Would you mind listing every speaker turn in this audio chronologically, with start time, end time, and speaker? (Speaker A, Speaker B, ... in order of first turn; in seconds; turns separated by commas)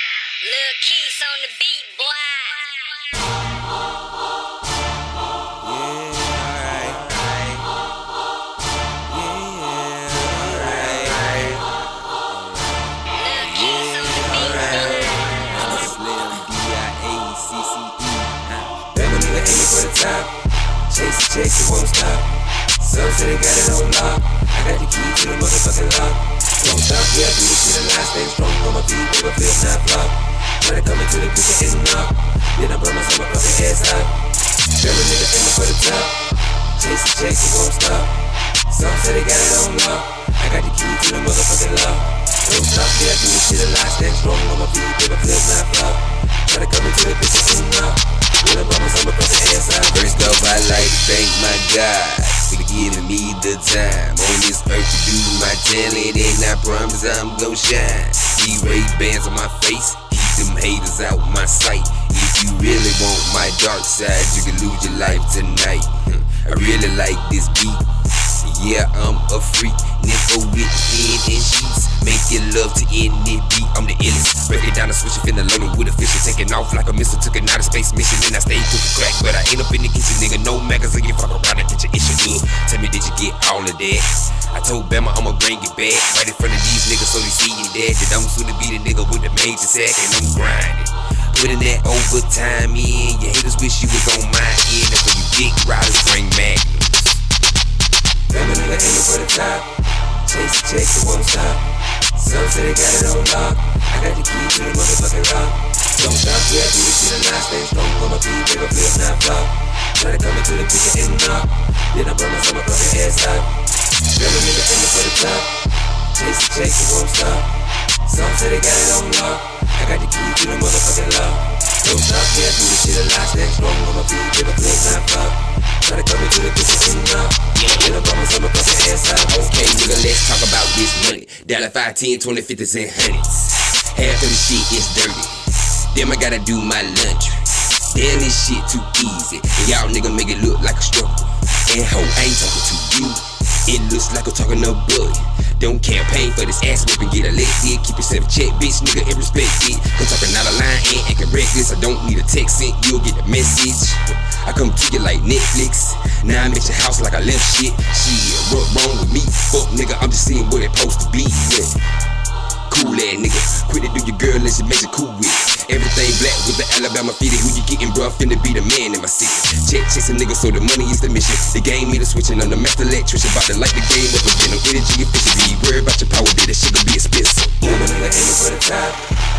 Speaker A: 0.4-3.0, Speaker B: 5.6-7.7, Speaker B: 9.1-18.8, Speaker A: 13.1-15.8, Speaker C: 18.9-34.2, Speaker C: 34.7-36.2, Speaker C: 36.8-38.2, Speaker C: 38.7-50.1, Speaker B: 49.9-67.9, Speaker B: 68.4-97.2, Speaker C: 98.3-99.7, Speaker C: 100.2-115.5, Speaker C: 116.1-117.5, Speaker C: 118.0-129.9, Speaker B: 129.2-161.8, Speaker B: 162.7-177.9, Speaker C: 177.6-179.0